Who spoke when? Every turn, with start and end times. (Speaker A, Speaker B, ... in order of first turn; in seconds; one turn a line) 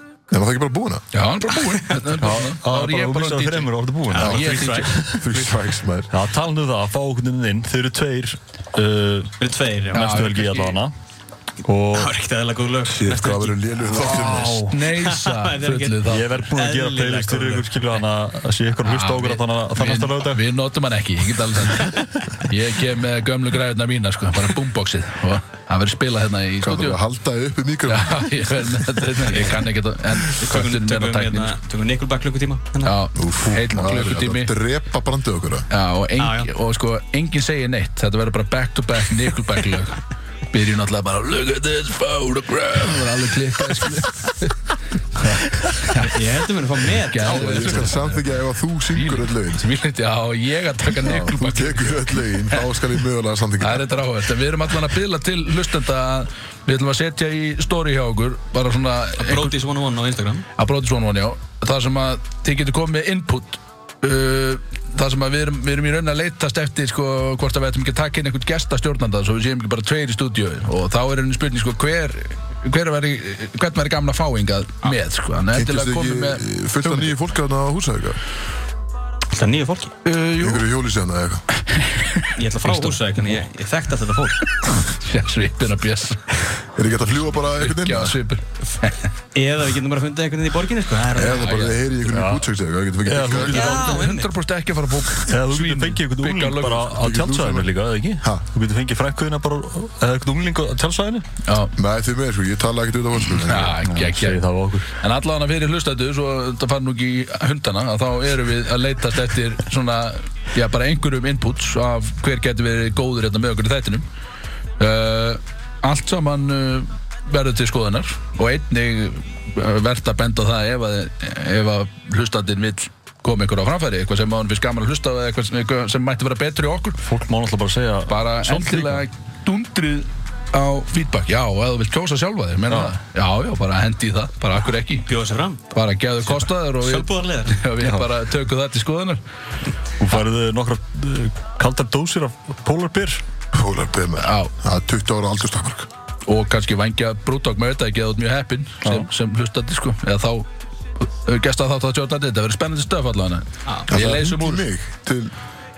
Speaker A: 0.3-1.0
Speaker B: 1.1-5.0
Speaker C: 2.2-5.4
Speaker D: 4.1-5.0
Speaker A: 4.2-4.5
Speaker A: 5.1-6.1
Speaker C: 6.1-9.3
Speaker D: 9.4-10.6
Speaker B: 9.9-10.7
Speaker C: 9.9-10.9
Speaker C: 11.6-12.1
Speaker D: 11.9-18.0
Speaker A: 12.8-14.6
Speaker C: 13.9-14.8
Speaker B: 14.1-16.3
Speaker C: 16.0-20.4
Speaker B: 18.8-27.0
Speaker D: 21.8-22.3
Speaker A: 26.6-28.2
Speaker B: 27.9-31.6
Speaker D: 29.3-29.6
Speaker D: 30.3-32.9
Speaker B: 32.8-34.5
Speaker A: 33.1-35.7
Speaker B: 35.7-46.2
Speaker D: 36.2-36.5
Speaker D: 45.9-48.0
Speaker B: 47.0-48.2
Speaker A: 47.2-49.6
Speaker B: 48.9-52.7
Speaker A: 51.0-53.9
Speaker B: 53.6-59.6
Speaker D: 59.2-60.4
Speaker B: 60.5-77.1
Speaker A: 75.5-78.2
Speaker D: 79.3-79.9
Speaker B: 80.0-80.7
Speaker A: 80.4-81.5
Speaker B: 81.7-83.2
Speaker D: 82.3-84.4
Speaker B: 84.7-86.5
Speaker A: 86.8-88.2
Speaker B: 87.4-89.0
Speaker D: 89.3-91.6
Speaker A: 91.1-93.8
Speaker B: 91.3-91.8
Speaker C: 92.1-92.5
Speaker C: 93.0-94.1
Speaker B: 93.3-97.0
Speaker D: 93.4-94.3
Speaker C: 95.3-101.2
Speaker A: 96.9-98.4
Speaker B: 101.4-101.7
Speaker A: 101.8-103.8
Speaker B: 103.3-104.4
Speaker C: 103.8-104.9
Speaker B: 104.9-114.0
Speaker B: 114.8-127.0
Speaker C: 127.0-129.0
Speaker B: 128.1-135.1
Speaker D: 134.9-135.6
Speaker B: 135.7-139.2
Speaker D: 136.2-137.6
Speaker C: 137.8-138.1
Speaker C: 140.0-143.2
Speaker A: 143.5-145.9
Speaker B: 144.2-144.5
Speaker B: 146.2-150.4
Speaker B: 151.0-154.7
Speaker A: 153.9-155.3